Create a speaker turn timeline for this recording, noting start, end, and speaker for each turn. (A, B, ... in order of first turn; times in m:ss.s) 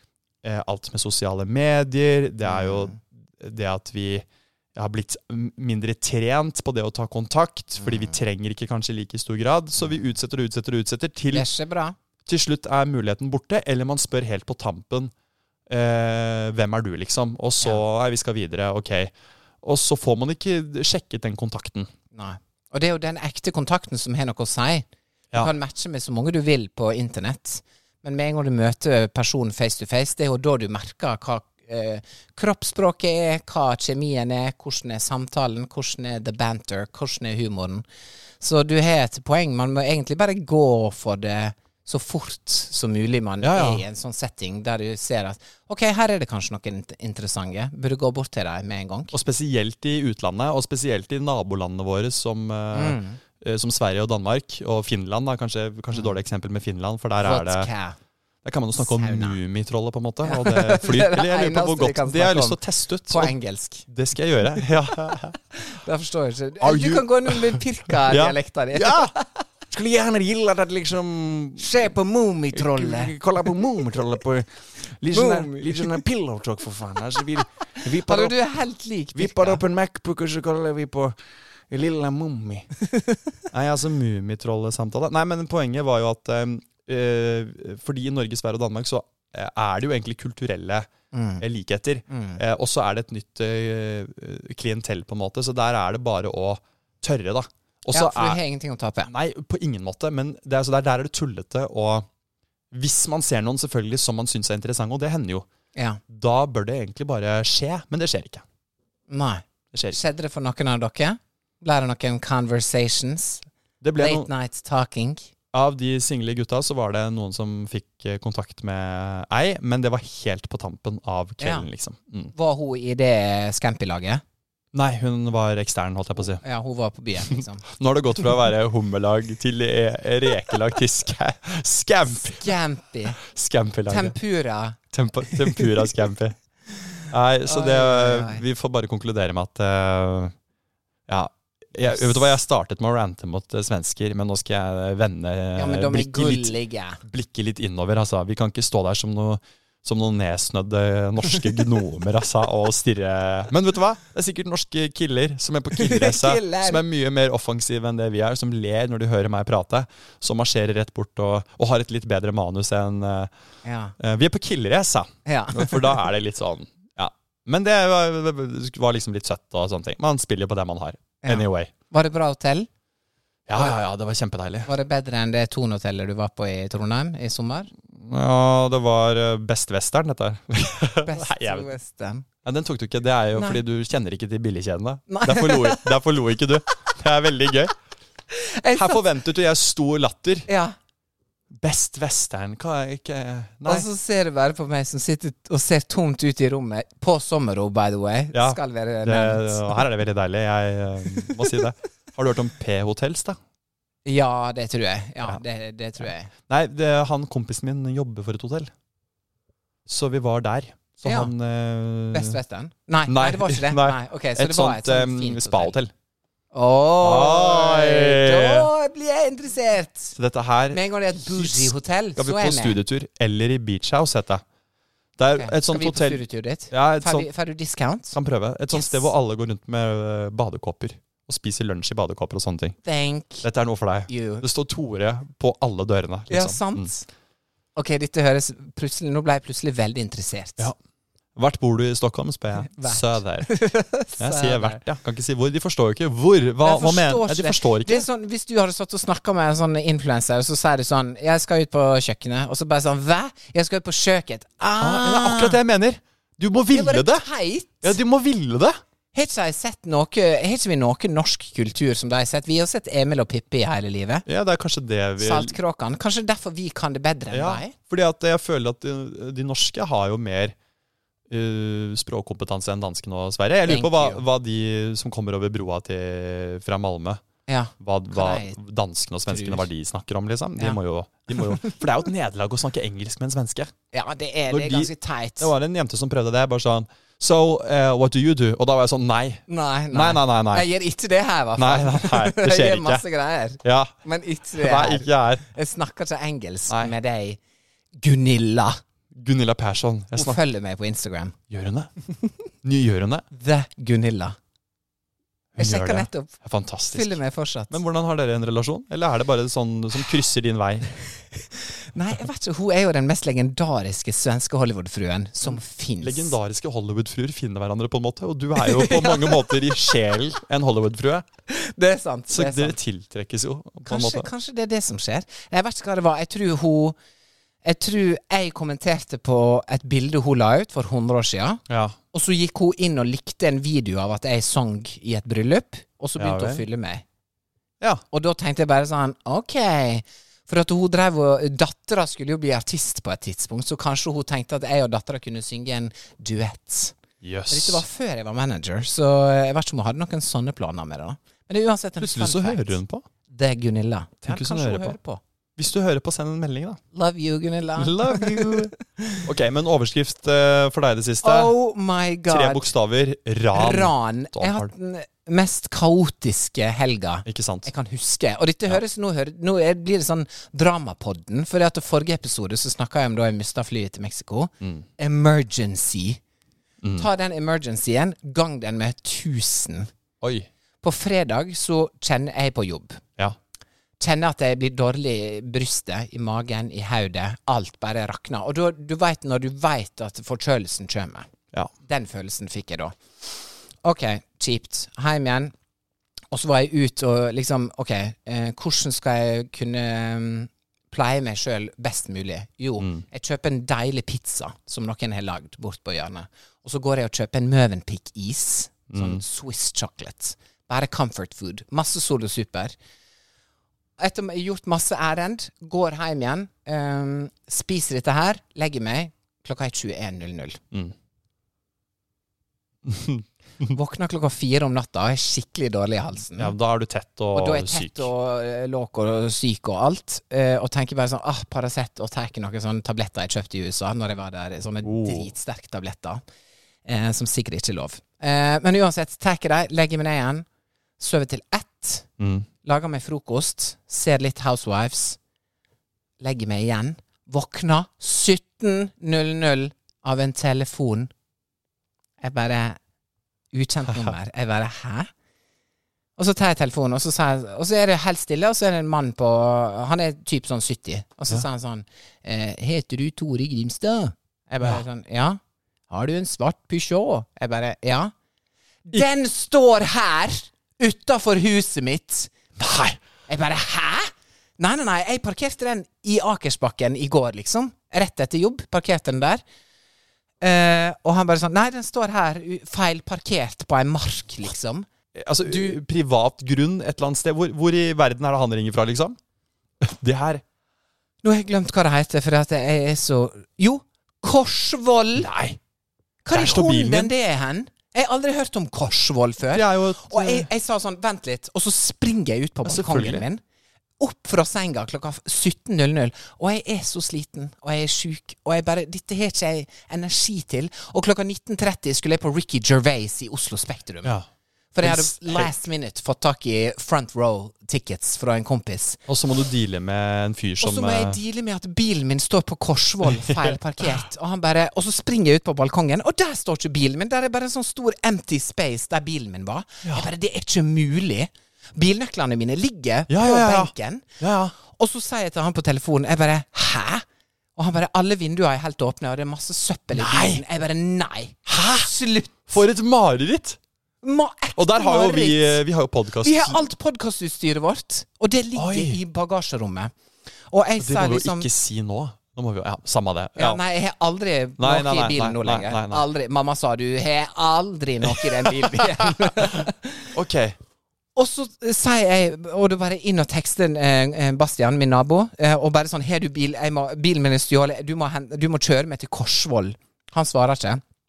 0:00.4-0:11.5 A
0:02.4-0:03.0 B
0:07.8-0:08.2 B
0:11.3-0:12.0 B
0:12.2-0:15.1 A
0:15.7-0:21.9 A
0:22.1-0:37.8 B
0:38.4-0:49.1 B
0:43.4-0:43.8 A
0:49.1-0:57.7 A
0:52.7-0:53.2 B
0:57.2-0:58.0 B
0:58.4-1:03.3 A
0:58.7-0:59.4 B
1:00.2-1:03.8 B
1:03.9-1:05.4 A
1:05.5-1:09.4 B
1:06.6-1:09.1 A
1:09.7-1:11.9 A
1:11.6-1:13.1 B
1:12.5-1:18.4 A
1:15.1-1:16.0 B
1:17.8-1:19.6 B
1:19.1-1:21.2 A
1:21.7-1:22.7 A
1:22.8-1:23.2 B
1:23.5-1:30.9 A
1:31.1-1:31.4 B
1:31.4-1:38.4 A
1:32.1-1:32.4 B
1:37.9-1:39.1 B
1:39.0-1:42.1 A
1:42.7-1:45.4 A
1:45.8-1:46.0 B
1:46.1-1:48.4 A
1:49.1-1:53.4 B
1:49.7-1:50.0 A
1:53.8-1:54.3 A
1:54.0-1:55.3 B
1:55.5-2:02.3 A
2:01.4-2:01.7 B
2:02.3-2:04.2 B
2:04.7-2:06.4 A
2:06.4-2:07.6 B
2:07.3-2:12.6 A
2:12.3-2:13.2 B
2:13.2-2:14.2 A
2:13.9-2:14.8 B
2:14.9-2:16.4 A
2:15.3-2:15.7 B
2:17.1-2:20.3 A
2:17.4-2:18.4 B
2:21.1-2:43.3 A
2:21.8-2:22.1 B
2:25.6-2:27.0 B
2:35.7-2:36.8 B
2:43.6-2:43.9 B
2:44.0-2:51.7 A
2:45.2-2:46.0 B
2:51.2-2:52.7 B
2:53.5-2:54.7 A
2:54.6-2:57.7 B
2:57.9-3:01.7 A
3:01.0-3:02.2 B
3:02.4-3:07.7 A
3:03.4-3:03.6 B
3:05.1-3:05.9 B
3:08.3-3:09.0 B
3:08.7-3:10.5 A
3:10.5-3:10.8 B
3:11.5-3:13.9 A
3:13.6-3:19.8 B
3:18.3-3:23.4 A
3:24.0-3:26.3 B
3:26.5-3:28.7 A
3:29.9-3:32.4 A
3:31.0-3:31.3 B
3:32.1-3:35.8 B
3:33.1-3:35.9 A
3:36.5-3:40.2 B
3:37.0-3:38.7 A
3:40.2-3:44.4 A
3:40.7-3:42.8 B
3:45.2-3:47.3 A
3:45.4-3:48.2 B
3:48.1-3:52.8 A
3:48.7-3:49.1 B
3:52.8-3:53.4 B
3:53.4-3:56.9 A
3:54.1-3:54.4 B
3:56.3-3:57.1 B
3:57.8-4:00.7 B
4:01.4-4:03.5 A
4:02.6-4:04.8 B
4:04.2-4:08.1 A
4:06.6-4:15.6 B
4:14.8-4:17.2 A
4:16.7-4:18.0 B
4:17.8-4:18.8 A
4:19.1-4:24.2 B
4:24.2-4:25.6 A
4:25.2-4:27.7 B
4:27.3-4:30.5 A
4:31.3-4:37.2 A
4:33.6-4:34.2 B
4:37.5-4:38.6 B
4:37.8-4:43.7 A
4:39.3-4:39.7 B
4:41.3-4:41.7 B
4:43.9-4:45.5 B
4:44.5-4:50.7 A
4:49.5-4:57.4 B
4:51.6-4:53.0 A
4:53.6-4:53.9 A
4:54.5-4:55.4 A
4:56.7-4:56.9 A
4:58.0-4:58.8 B
4:59.1-5:00.4 A
5:00.1-5:01.4 B
5:01.5-5:01.9 A
5:02.6-5:03.2 A
5:03.3-5:04.4 B
5:05.6-5:07.2 A
5:05.6-5:06.3 B
5:06.9-5:07.8 B
5:07.7-5:10.9 A
5:11.9-5:16.3 B
5:15.4-5:21.2 A
5:18.6-5:19.9 B
5:21.5-5:22.8 B
5:22.3-5:24.3 A
5:23.8-5:27.0 B
5:27.6-5:31.6 B
5:31.7-5:32.0 A
5:32.1-5:37.0 B
5:36.2-5:36.6 A
5:38.1-5:47.0 B
5:47.2-5:47.8 A
5:47.5-5:55.2 B
5:52.0-5:53.0 A
5:54.2-5:55.0 A
5:55.6-5:56.8 A
5:56.9-5:59.2 B
5:57.8-6:01.5 A
6:01.2-6:02.7 B
6:02.3-6:04.7 A
6:03.5-6:16.2 B
6:07.2-6:07.7 A
6:14.6-6:14.8 A
6:16.8-6:17.1 A
6:17.0-6:19.9 B
6:20.2-6:20.5 A
6:20.8-6:23.0 B
6:24.0-6:31.3 B
6:31.8-6:35.5 B
6:36.3-6:52.7 B
6:42.8-6:43.0 A
6:48.9-6:49.2 A
6:54.0-7:00.6 B
7:02.8-7:03.7 A
7:03.7-7:06.5 B
7:06.4-7:08.1 A
7:07.3-7:16.2 B
7:14.8-7:15.3 A
7:16.8-7:20.4 B
7:21.0-7:22.1 B
7:22.2-7:22.5 A
7:22.6-7:25.2 B
7:26.2-7:31.1 B
7:32.2-7:32.8 B
7:33.5-7:35.1 B
7:36.2-7:45.4 B
7:45.9-7:48.1 B
7:48.9-7:52.3 B
7:52.6-7:53.0 A
7:53.3-7:59.4 B
8:00.4-8:04.9 B
8:05.1-8:09.2 A
8:05.5-8:05.8 B
8:09.8-8:10.4 A
8:11.2-8:15.3 B
8:15.2-8:15.6 A
8:16.2-8:23.4 B
8:16.3-8:17.1 A
8:19.5-8:20.5 A
8:22.6-8:23.2 A
8:24.0-8:34.1 B
8:34.7-8:39.0 B
8:34.8-8:35.5 A
8:39.1-8:41.2 A
8:40.6-8:54.1 B
8:43.0-8:44.0 A
8:53.1-8:54.5 A
8:54.6-8:57.0 B
8:57.6-9:02.5 B
8:59.9-9:00.4 A
9:01.5-9:01.9 A
9:02.5-9:03.6 A
9:04.0-9:05.6 B
9:04.6-9:06.6 A
9:06.2-9:09.9 B
9:08.6-9:09.0 A
9:10.5-9:11.5 B
9:10.8-9:13.6 A
9:13.4-9:20.1 B
9:14.6-9:16.0 A
9:18.0-9:20.6 A
9:21.2-9:30.8 B